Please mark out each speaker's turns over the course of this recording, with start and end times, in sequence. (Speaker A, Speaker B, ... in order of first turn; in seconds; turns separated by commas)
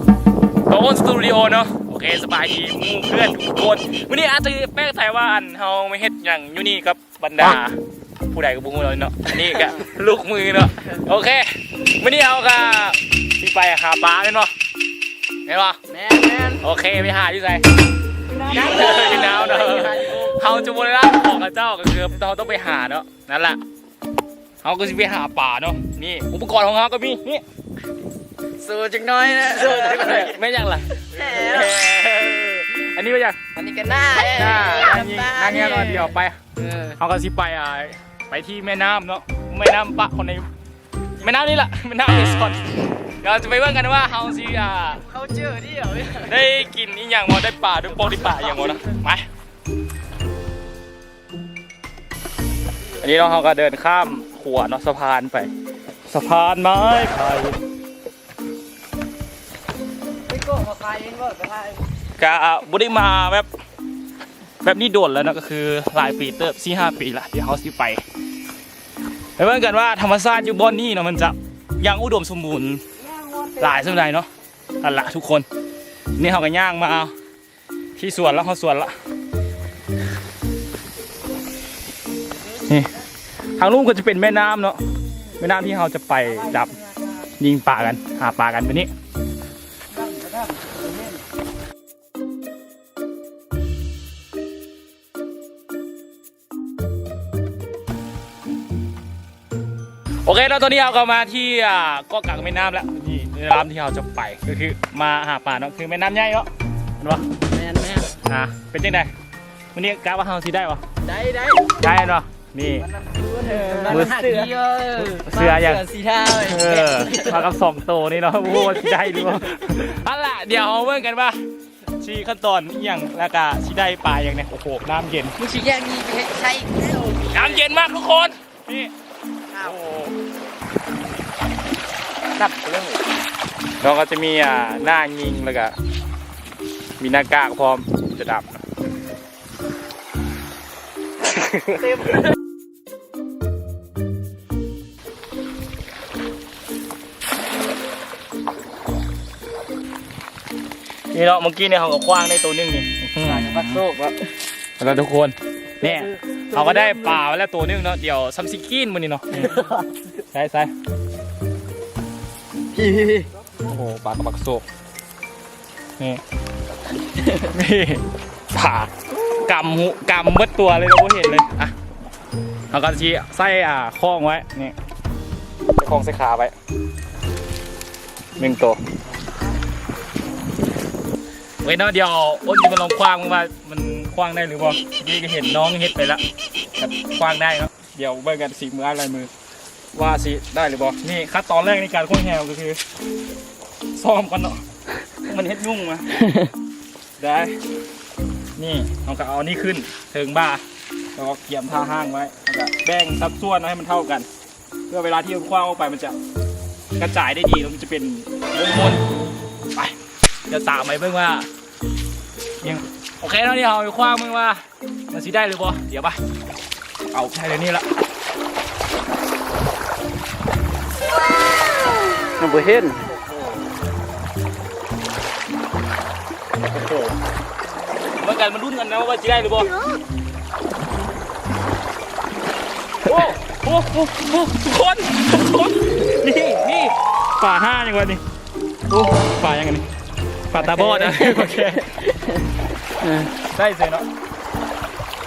Speaker A: 0.7-7.8, Speaker A: 8.3-14.5, Speaker A: 15.4-15.8, Speaker B: 15.9-16.6, Speaker A: 16.6-17.6, Speaker B: 18.4-20.3, Speaker A: 18.5-23.6, Speaker A: 24.6-27.4, Speaker B: 28.6-30.3, Speaker A: 29.5-33.4, Speaker B: 31.3-31.8, Speaker B: 33.6-36.1, Speaker A: 34.1-36.4, Speaker A: 37.0-40.5, Speaker A: 41.2-45.1, Speaker B: 45.1-46.3, Speaker A: 46.1-49.3, Speaker A: 53.0-55.5, Speaker A: 56.1-57.6, Speaker B: 60.3-61.8, Speaker A: 62.2-63.5, Speaker A: 64.6-68.0, Speaker A: 69.4-72.8, Speaker A: 73.5-74.3, Speaker A: 74.8-75.5, Speaker A: 76.2-77.1, Speaker A: 78.0-78.9, Speaker A: 82.6-83.0, Speaker A: 83.6-84.8, Speaker A: 85.4-86.8, Speaker A: 87.4-88.9, Speaker B: 90.0-91.1, Speaker A: 100.2-106.5, Speaker A: 107.0-107.3, Speaker B: 107.5-108.2, Speaker A: 108.2-109.1, Speaker A: 109.7-110.8, Speaker B: 111.0-111.6, Speaker A: 111.8-112.9, Speaker B: 113.0-117.5, Speaker A: 113.8-114.5, Speaker A: 115.2-115.8, Speaker A: 116.4-121.4, Speaker B: 118.6-119.1, Speaker A: 121.9-125.3, Speaker B: 125.4-127.5, Speaker A: 127.3-128.9, Speaker A: 129.5-130.1, Speaker A: 132.3-133.0, Speaker A: 133.8-135.7, Speaker A: 137.0-138.6, Speaker A: 141.2-142.0, Speaker A: 151.1-153.9, Speaker B: 153.3-153.9, Speaker A: 154.8-159.6, Speaker A: 160.1-160.7, Speaker B: 162.7-163.3, Speaker A: 163.6-164.6, Speaker A: 167.3-171.7, Speaker A: 172.7-174.7, Speaker A: 175.8-176.5, Speaker A: 178.4-178.8, Speaker A: 181.6-186.2, Speaker A: 186.8-189.3, Speaker A: 189.9-192.8, Speaker A: 193.9-194.6, Speaker A: 195.2-196.1, Speaker A: 197.2-197.6, Speaker A: 198.6-200.6, Speaker A: 201.2-204.3, Speaker A: 204.9-206.2, Speaker A: 207.0-209.0, Speaker A: 210.5-211.5, Speaker A: 212.6-216.2, Speaker A: 217.1-217.8, Speaker B: 222.2-223.0, Speaker A: 223.1-223.5, Speaker A: 226.7-227.1, Speaker A: 228.2-229.7, Speaker A: 233.0-238.2, Speaker A: 238.9-239.9, Speaker A: 240.5-241.9, Speaker A: 243.5-244.0